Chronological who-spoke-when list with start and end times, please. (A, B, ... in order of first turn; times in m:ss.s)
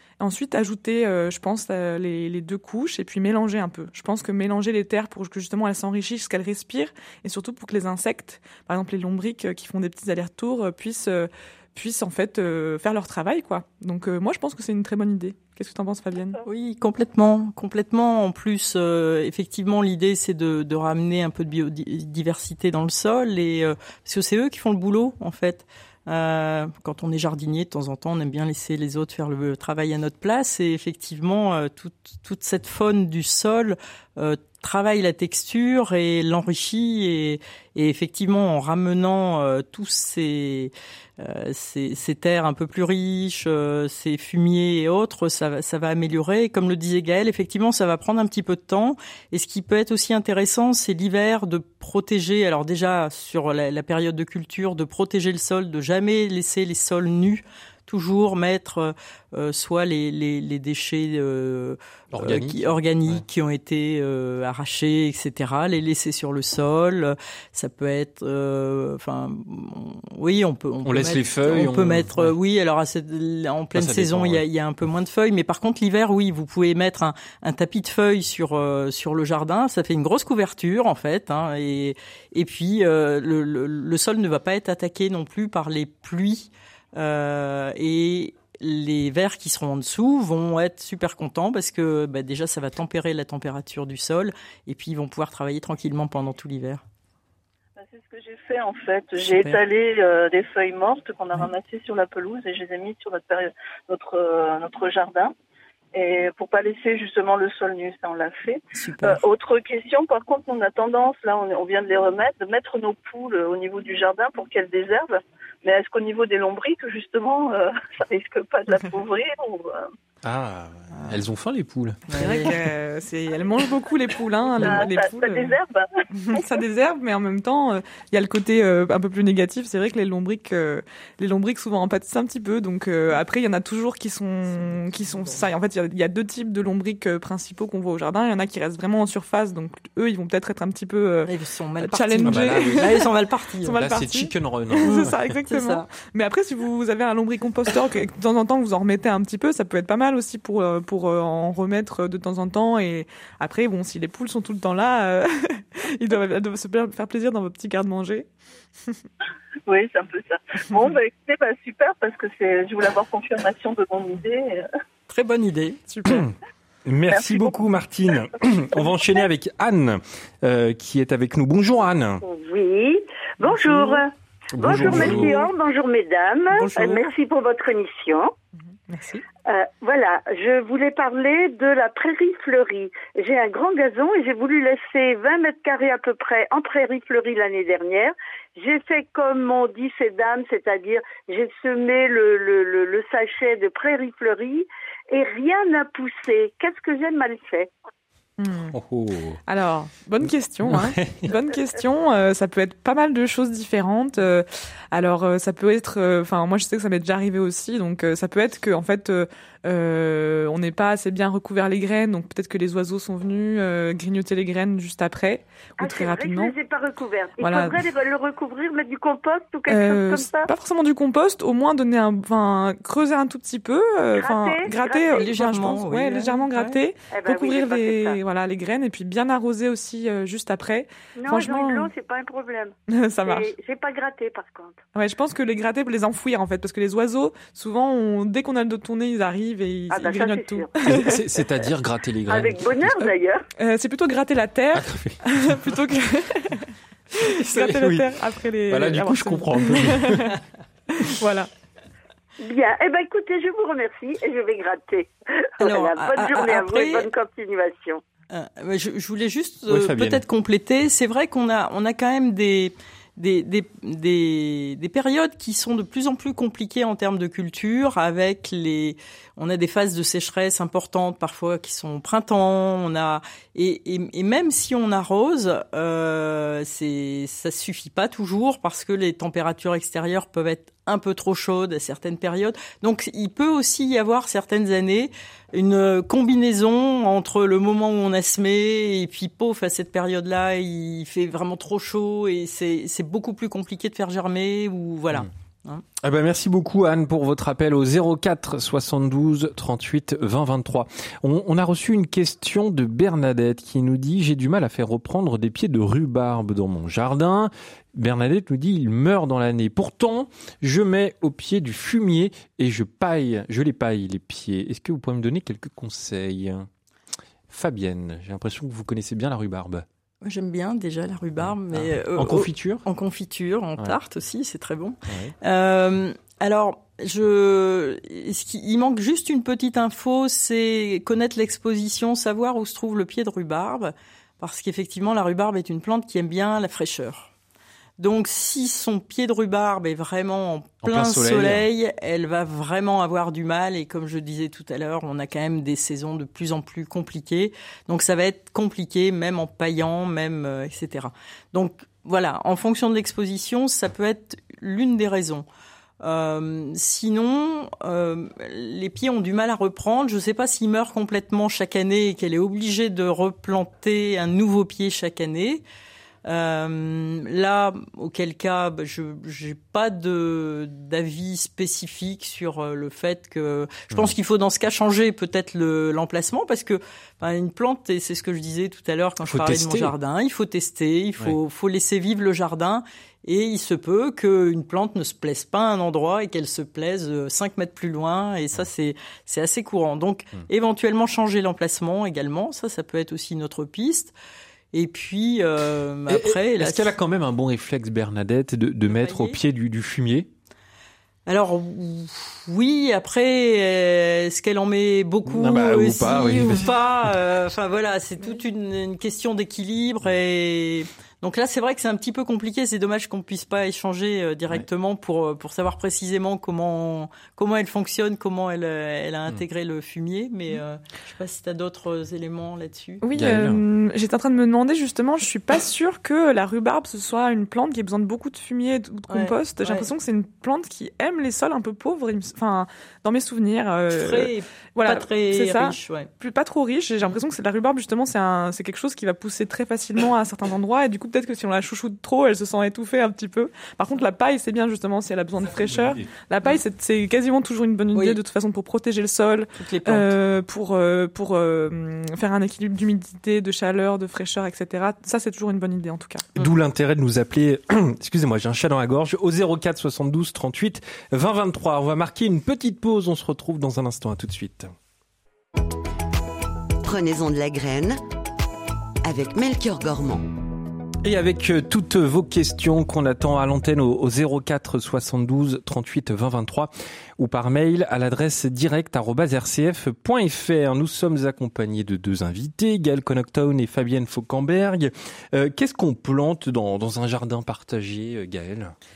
0:00.2-0:16.4 A
0:16.4-1:36.8 B
1:02.1-1:03.2 C
1:10.8-1:12.4 C
1:13.7-1:14.4 C
1:37.8-1:45.3 D
1:39.2-1:39.6 B
1:45.9-1:59.8 D
1:48.7-1:49.2 B
2:00.2-2:02.0 C
2:02.1-2:02.5 B
2:02.1-2:05.5 A
2:04.5-2:06.4 D
2:06.2-2:21.3 A
2:14.5-2:15.5 B
2:21.2-2:23.8 B
2:21.8-2:23.0 A
2:21.9-2:23.0 C
2:23.6-2:38.3 A
2:23.7-2:25.3 C
2:24.8-2:25.9 B
2:39.7-2:44.7 D
2:45.1-2:45.9 B
2:45.9-2:46.2 A
2:46.0-2:52.2 C
2:47.1-2:47.6 D
2:52.2-2:58.3 E
2:54.5-2:55.5 C
2:56.6-2:57.0 B
2:58.9-2:59.2 A
2:59.5-3:17.7 E
3:18.4-3:18.7 A
3:18.5-3:19.4 C
3:19.4-3:36.5 A
3:20.6-3:21.3 C
3:35.8-3:40.5 E
3:37.4-3:37.8 A
3:39.7-3:51.9 A
3:44.1-3:45.4 E
3:45.1-3:46.8 B
3:47.1-3:48.2 E
3:51.2-3:54.8 E
3:52.9-3:53.5 A
3:54.9-4:01.2 A
3:59.9-4:01.7 E
4:00.8-4:03.1 C
4:02.2-4:03.4 E
4:03.0-4:10.4 A
4:04.7-4:05.7 C
4:07.1-4:10.3 C
4:10.9-4:11.5 A
4:12.4-4:18.0 E
4:15.6-4:17.1 B
4:18.3-4:55.8 B
4:19.7-4:20.2 C
4:56.0-5:16.7 C
5:17.5-5:19.8 C
5:20.2-5:37.3 B
5:21.7-5:22.8 C
5:25.1-5:25.3 C
5:38.0-5:55.4 B
5:40.8-5:41.6 C
5:56.0-6:05.6 B
6:06.2-6:34.1 B
6:19.2-6:19.9 C
6:34.7-6:36.9 B
6:36.1-6:40.3 C
6:38.9-6:39.4 B
6:41.3-7:03.0 B
6:45.2-6:47.1 C
7:03.0-7:36.3 A
7:03.1-7:03.6 C
7:09.1-7:09.9 B
7:13.9-7:16.1 B
7:25.6-7:26.0 C
7:27.9-7:28.2 B
7:29.6-7:30.1 B
7:36.4-7:44.7 C
7:46.8-7:48.0 F
7:49.0-7:50.2 F
7:51.0-8:08.7 C